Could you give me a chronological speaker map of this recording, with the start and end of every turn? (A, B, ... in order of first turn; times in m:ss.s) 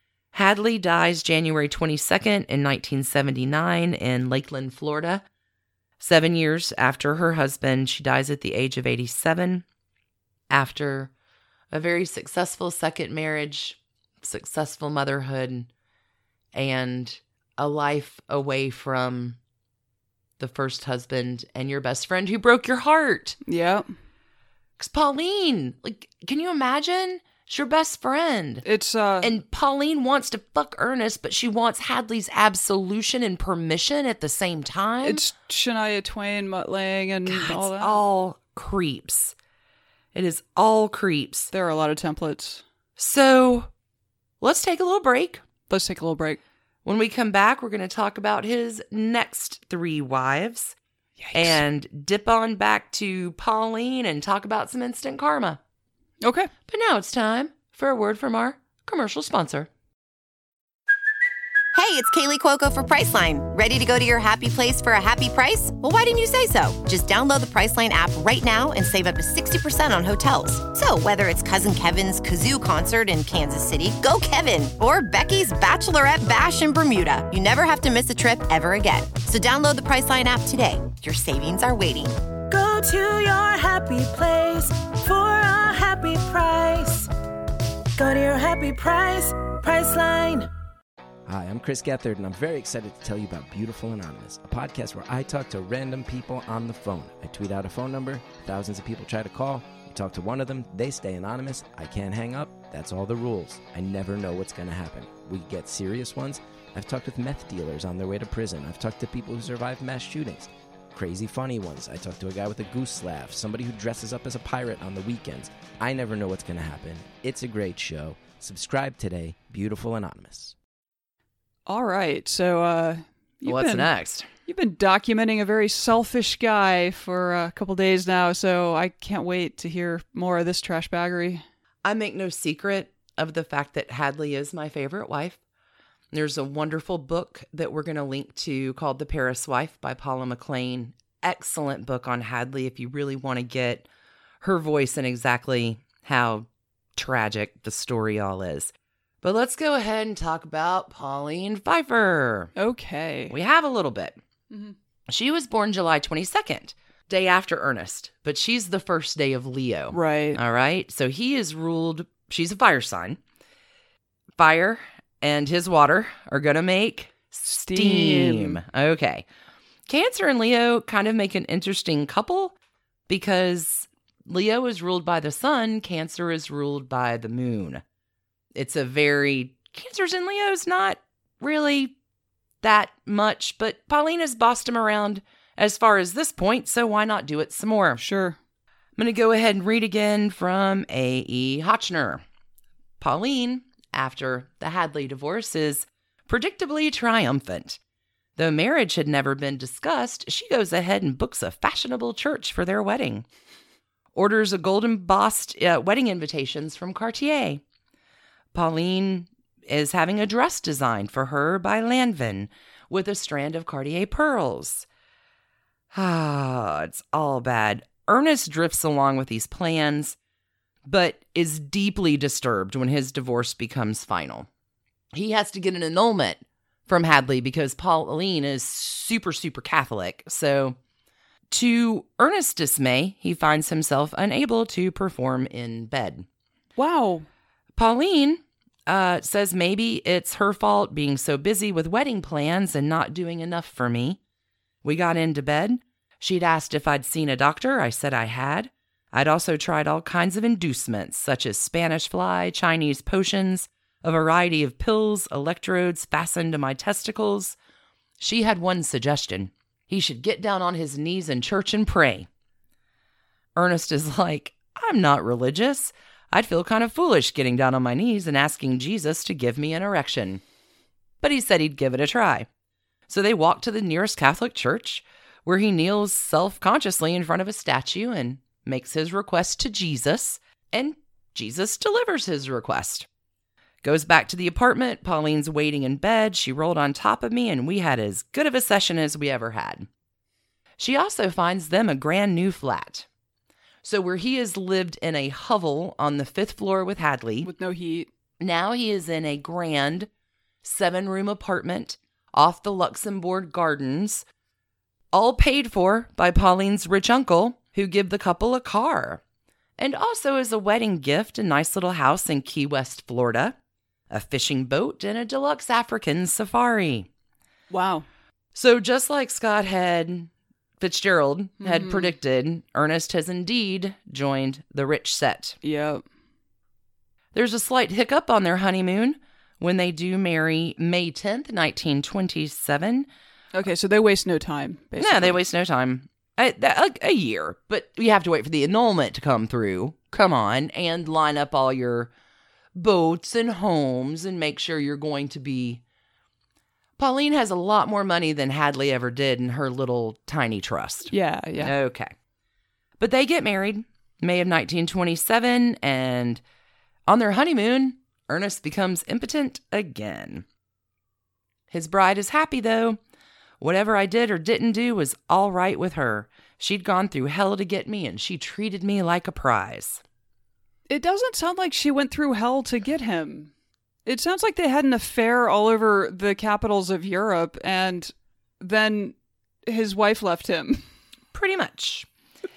0:00.3-0:05.2 A
0:06.0-0:09.6 A
0:10.5-0:11.1 A
0:11.7-0:15.7 A
0:16.5-0:19.4 A
0:20.4-0:23.4 A
0:23.5-0:23.9 B
0:24.8-0:28.6 A
0:28.6-0:29.3 B
0:29.2-0:35.2 A
0:35.0-0:38.0 B
0:37.3-0:39.4 A
0:40.1-0:41.5 A
0:41.5-0:42.6 B
0:43.0-0:43.7 A
0:44.4-0:45.4 A
0:45.7-0:46.4 B
0:46.8-0:50.8 A
0:51.2-0:51.6 B
0:51.3-0:55.6 A
0:56.2-0:56.5 B
0:56.7-0:59.7 A
1:01.7-1:22.2 C
1:22.5-1:27.1 D
1:28.0-1:30.5 D
1:31.3-2:00.6 E
2:01.7-2:03.9 B
2:03.5-2:04.3 A
2:04.5-2:11.4 B
2:11.8-2:15.4 A
2:16.1-2:23.9 A
2:24.4-2:32.5 A
2:32.6-2:33.4 B
2:33.3-2:34.2 A
2:35.1-2:43.2 A
2:39.9-2:40.4 B
2:44.4-2:49.3 A
2:47.5-2:48.6 B
2:49.9-2:52.6 A
2:53.1-2:57.8 A
2:58.6-3:01.9 A
3:02.6-3:08.0 A
3:08.0-3:08.4 B
3:09.0-3:12.2 A
3:13.0-3:17.8 A
3:18.4-3:23.3 A
3:24.2-3:27.6 A
3:28.5-3:34.9 A
3:35.9-3:40.2 A
3:40.8-3:44.5 A
3:45.1-3:50.8 A
3:51.5-3:56.3 A
3:56.8-3:57.3 B
3:57.8-4:04.2 A
4:04.8-4:17.6 A
4:18.2-4:22.3 A
4:23.6-4:30.4 A
4:31.2-4:32.5 A
4:33.1-4:43.1 A
4:43.8-4:49.9 A
4:50.8-4:53.1 A
4:53.8-4:57.5 A
4:57.4-4:58.1 B
4:58.4-5:00.1 A
5:00.6-5:04.3 A
5:05.1-5:09.2 A
5:09.8-5:13.6 A
5:14.1-5:17.1 A
5:17.7-5:18.1 B
5:18.5-5:25.6 A
5:21.6-5:22.1 B
5:25.6-5:26.0 B
5:27.3-5:33.1 A
5:33.5-5:35.4 B
5:35.0-5:42.1 A
5:42.8-5:45.8 A
5:47.0-5:52.2 A
5:51.1-5:51.7 B
5:53.0-5:56.4 A
5:57.1-6:00.4 A
6:01.7-6:03.0 A
6:03.6-6:10.0 A
6:10.9-6:13.5 B
6:14.0-6:19.2 B
6:19.7-6:20.8 B
6:21.3-6:22.1 A